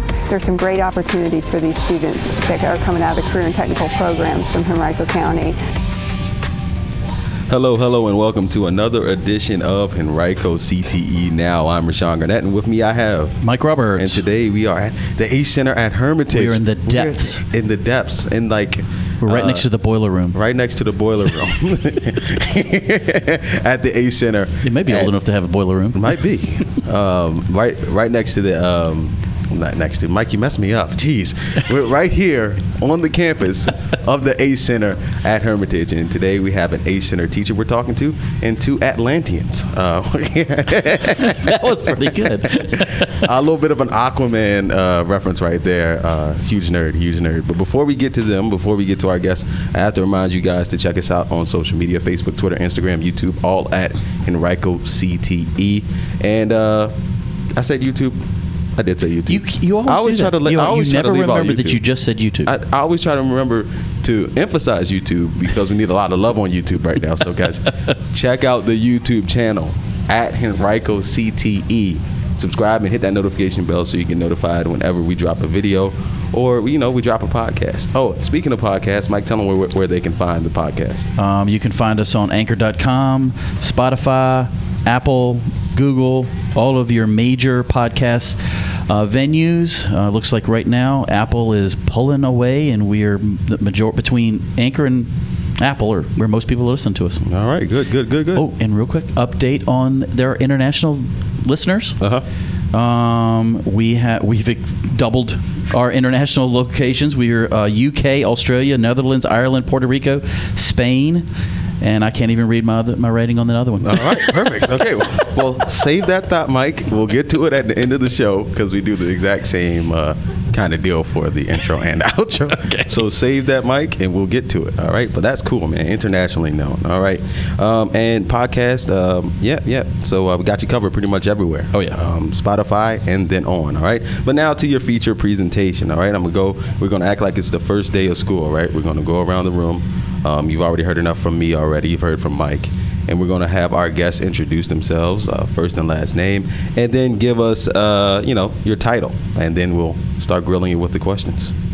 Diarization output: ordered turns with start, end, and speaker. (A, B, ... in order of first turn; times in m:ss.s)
0:00.3-0:05.6 A
0:07.5-0:13.4 B
0:13.4-0:14.2 C
0:14.0-0:19.7 B
0:16.3-0:17.4 C
0:19.2-0:20.4 C
0:20.3-0:25.1 B
0:24.6-0:26.0 C
0:25.9-0:56.9 B
0:41.2-0:43.2 C
0:57.6-0:58.2 B
0:58.8-1:01.8 B
0:59.3-1:02.5 C
1:02.4-1:21.1 B
1:21.2-1:37.2 C
1:37.2-1:38.4 B
1:38.3-1:42.0 C
1:42.0-1:42.2 B
1:42.7-1:51.3 C
1:51.8-1:55.2 C
1:53.8-2:31.5 B
2:02.6-2:02.9 C
2:11.7-2:12.0 C